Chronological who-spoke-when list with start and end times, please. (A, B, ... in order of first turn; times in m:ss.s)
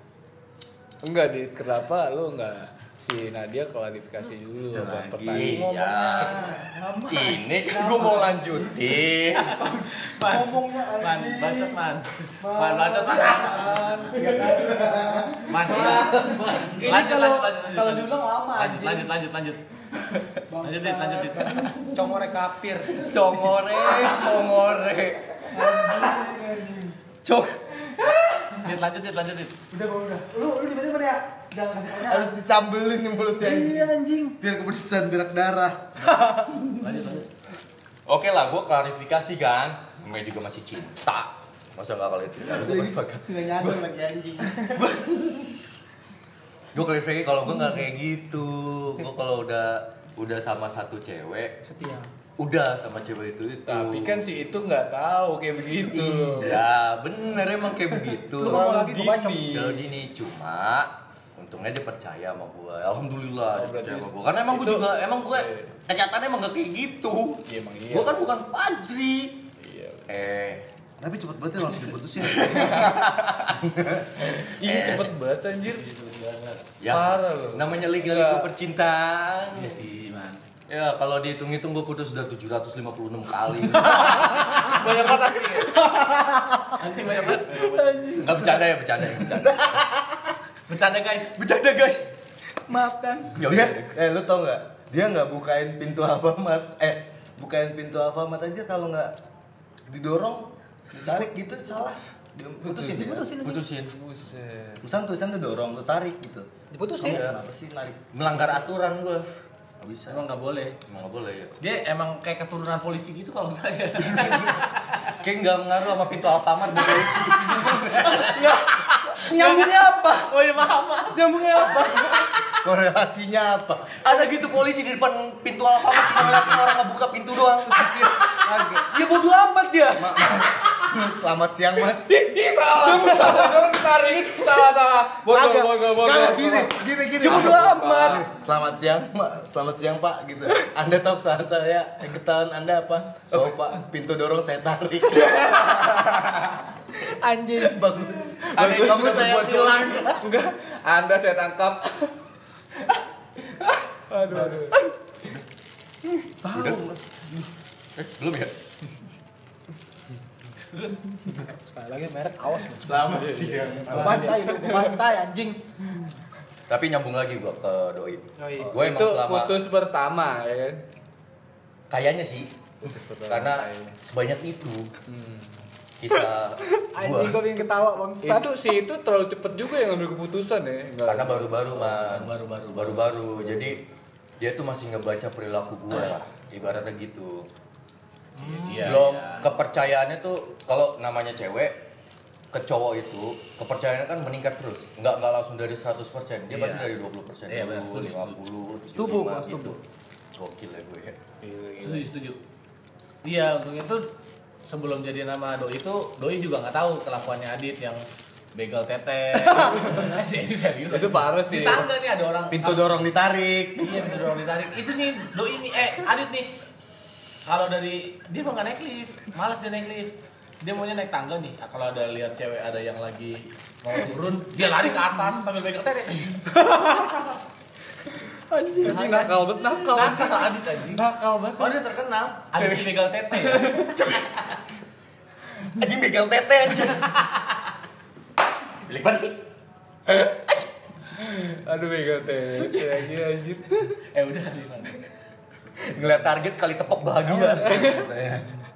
0:01.0-0:05.6 A
0:04.7-0:05.6 B
0:05.1-0:06.5 C
0:05.4-0:08.9 D
0:06.3-0:06.8 B
0:07.1-0:09.6 C
0:09.1-0:13.8 E
0:09.6-0:11.8 D
0:12.4-0:19.1 D
0:13.6-0:17.0 B
0:15.5-0:16.2 E
0:16.8-0:19.6 E
0:20.5-0:24.2 D
0:20.6-0:21.7 E
0:23.0-0:25.4 C
0:25.5-0:27.0 D
0:27.2-0:27.5 C
0:28.6-0:29.6 E
0:29.7-0:32.3 D
0:32.0-0:36.9 B
0:33.4-0:34.4 D
0:36.0-0:36.6 D
0:36.8-0:37.3 E
0:38.1-0:43.8 C
0:42.4-0:45.5 B
0:44.8-0:45.1 C
0:46.7-0:51.6 C
0:51.6-0:52.1 D
0:52.4-0:54.2 C
0:53.7-0:56.6 A
0:56.0-0:58.8 C
0:58.4-0:59.6 D
0:58.4-0:59.9 A
0:59.4-1:09.5 C
1:03.5-1:05.7 A
1:07.5-1:08.3 A
1:09.6-1:10.1 A
1:10.1-1:10.6 C
1:11.0-1:14.0 B
1:12.3-1:13.7 C
1:14.2-1:15.8 A
1:14.4-1:15.2 C
1:15.6-1:16.7 E
1:16.8-1:19.8 C
1:16.9-1:18.5 A
1:19.5-1:20.4 E
1:20.7-1:24.3 C
1:23.8-1:25.8 E
1:26.8-1:28.2 E
1:27.6-1:28.4 D
1:28.1-1:29.8 C
1:29.2-1:30.0 B
1:30.7-1:31.4 E
1:31.4-1:32.1 C
1:32.7-1:33.3 D
1:33.3-1:34.0 C
1:33.4-1:39.2 B
1:39.9-1:43.4 B
1:42.6-1:43.7 D
1:42.8-1:43.9 C
1:43.9-1:44.8 A
1:44.8-1:46.5 B
1:46.7-1:47.3 D
1:47.0-1:48.1 B
1:47.0-1:47.4 C
1:48.1-1:49.3 C
1:49.8-1:50.2 C
1:50.1-1:50.8 E
1:50.9-1:51.6 C
1:51.6-1:55.2 E
1:54.1-1:54.6 C
1:55.1-2:00.3 C
1:56.8-1:57.1 E
1:57.5-1:58.6 B
1:58.0-2:01.9 E
2:01.2-2:02.2 C
2:01.5-2:04.0 B
2:04.0-2:10.9 C
2:06.1-2:06.6 B
2:07.6-2:09.0 B
2:10.0-2:12.4 B
2:12.0-2:14.7 C
2:12.7-2:18.3 A
2:15.2-2:26.5 B
2:17.2-2:18.3 C
2:27.0-2:28.2 D
2:27.5-2:30.2 B
2:28.5-2:32.2 A
2:28.6-2:30.0 C
2:34.1-2:34.8 A
2:34.1-2:34.8 D
2:36.4-2:37.4 B
2:38.0-2:38.5 C
2:40.7-2:41.4 E
2:41.3-2:43.0 D
2:42.8-2:44.4 B
2:43.1-2:44.9 A
2:43.9-2:45.6 D
2:46.7-2:49.6 C
2:48.4-2:48.7 D
2:48.6-2:50.8 A
2:51.9-2:52.5 C
2:52.8-2:54.0 A
2:53.3-2:54.9 C
2:55.1-2:55.6 A
2:56.0-2:57.4 C
2:56.8-2:58.5 D
2:58.2-3:01.9 A
3:01.0-3:03.8 C
3:01.9-3:03.2 E
3:03.4-3:03.8 A
3:04.4-3:07.5 C
3:08.4-3:09.0 D
3:08.5-3:09.5 E
3:08.8-3:11.8 C
3:12.5-3:19.8 C
3:16.5-3:16.9 E
3:17.5-3:18.4 E
3:19.0-3:19.8 D
3:20.4-3:21.2 C
3:21.4-3:22.1 A
3:21.8-3:22.4 E
3:23.2-3:24.1 E
3:24.7-3:28.0 E
3:28.6-3:33.1 E
3:30.9-3:31.9 A
3:32.5-3:34.2 B
3:33.8-3:36.5 E
3:37.5-3:46.5 E
3:46.6-3:47.3 D
3:48.5-3:49.4 D
3:48.7-3:51.8 A
3:49.9-3:51.0 E
3:51.6-3:53.9 E
3:52.6-3:52.9 C
3:53.3-3:54.0 A
3:53.9-3:54.3 C
3:55.6-3:57.3 C
3:58.8-3:59.4 C
4:00.1-4:00.4 A
4:01.1-4:04.0 A
4:04.1-4:05.0 E
4:05.8-4:08.1 C
4:07.3-4:08.5 B